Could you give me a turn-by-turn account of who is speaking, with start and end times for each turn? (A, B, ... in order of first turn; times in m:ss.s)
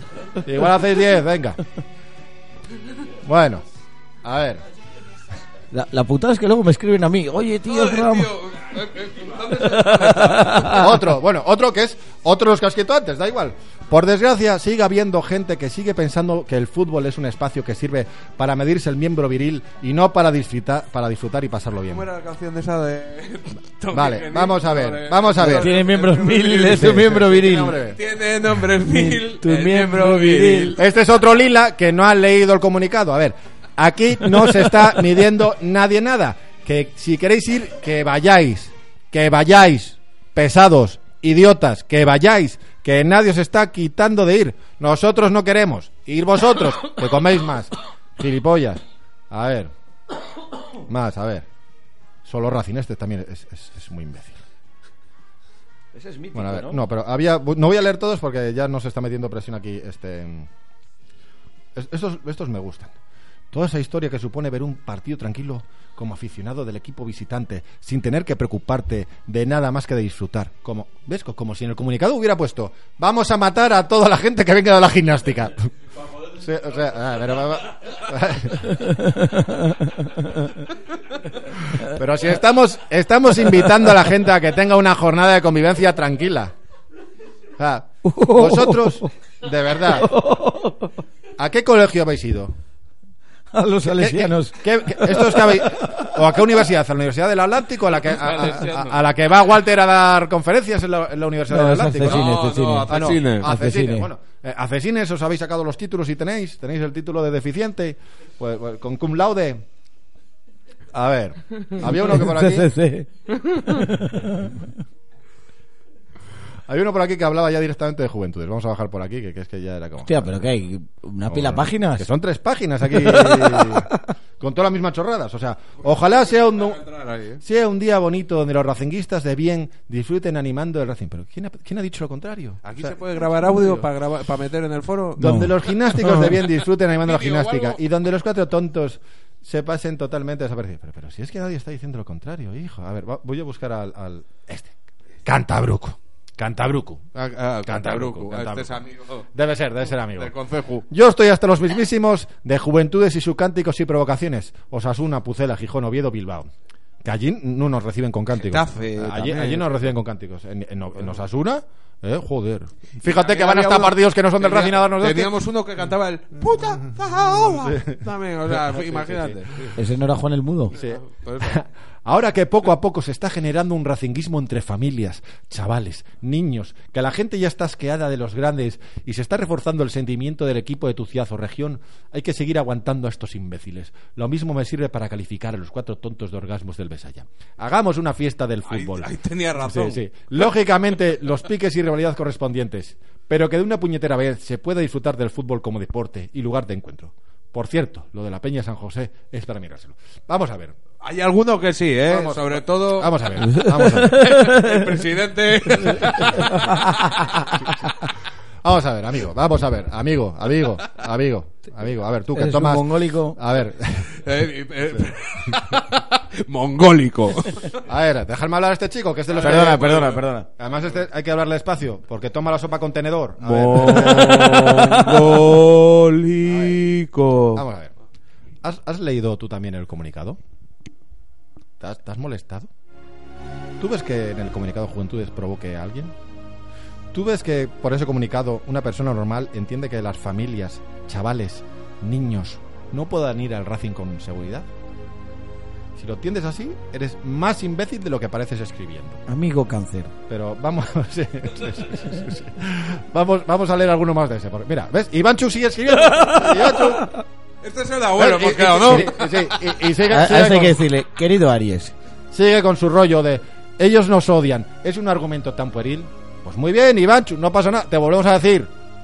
0:00.4-0:01.6 A
0:03.2-0:03.6 A
0:04.2-0:04.6 A
0:05.7-0:08.3 B
0:07.7-0:10.9 C
0:09.6-0:10.9 B
0:10.7-0:22.1 A
0:21.9-0:30.8 C
0:23.9-0:25.7 A
0:25.4-0:27.8 B
0:26.8-0:28.0 A
0:28.9-0:30.8 B
0:30.8-0:49.7 A
0:50.9-0:51.5 A
0:52.2-0:54.4 A
0:55.9-0:56.8 B
0:56.3-1:00.5 A
1:01.8-1:03.0 A
1:03.5-1:15.7 A
1:16.3-1:18.8 A
1:18.9-1:20.2 B
1:21.8-1:26.5 A
1:27.6-1:30.2 A
1:28.0-1:29.1 B
1:30.0-1:30.9 B
1:31.4-1:32.6 A
1:33.5-1:36.1 B
1:33.9-1:42.3 A
1:38.1-1:39.0 C
1:41.5-1:44.1 B
1:42.0-1:43.5 C
1:42.9-1:49.6 A
1:50.9-1:52.7 A
1:52.2-1:54.6 B
1:56.7-2:00.4 A
2:00.1-2:02.1 B
2:01.3-2:03.9 A
2:03.0-2:03.9 B
2:04.4-2:06.8 A
2:06.6-2:07.4 C
2:07.4-2:12.9 A
2:12.6-2:15.4 C
2:15.2-2:16.3 B
2:15.2-2:24.7 A
2:17.0-2:17.8 C
2:25.3-2:27.0 A
2:27.2-2:29.2 C
2:27.6-2:28.8 A
2:29.4-2:30.3 A
2:30.1-2:30.8 C
2:30.9-2:36.5 A
2:37.0-2:45.3 A
2:38.4-2:39.8 C
2:43.0-2:49.7 C
2:47.4-2:49.4 A
2:49.8-2:50.7 B
2:50.7-3:20.8 A
2:50.8-2:51.6 C
3:08.7-3:10.0 C
3:21.0-3:26.8 C
3:22.1-3:24.3 A
3:23.5-3:24.8 B
3:26.4-3:27.5 B
3:28.6-3:34.1 A
3:32.4-3:33.4 B
3:34.2-3:37.8 C
3:37.8-3:40.0 A
3:39.3-3:40.2 C
3:39.4-3:40.5 B
3:40.6-3:45.4 A
3:43.5-3:47.6 C
3:43.6-3:44.9 B
3:46.4-3:46.8 A
3:47.5-3:47.9 A
3:48.6-3:50.4 A
3:51.8-3:52.7 A
3:53.8-3:56.2 A
3:57.1-4:04.7 A
4:06.0-4:09.2 A
4:09.3-4:10.1 B
4:10.3-4:17.1 A
4:17.6-4:19.5 C
4:18.2-4:20.8 A
4:20.1-4:21.9 B
4:22.3-4:28.7 A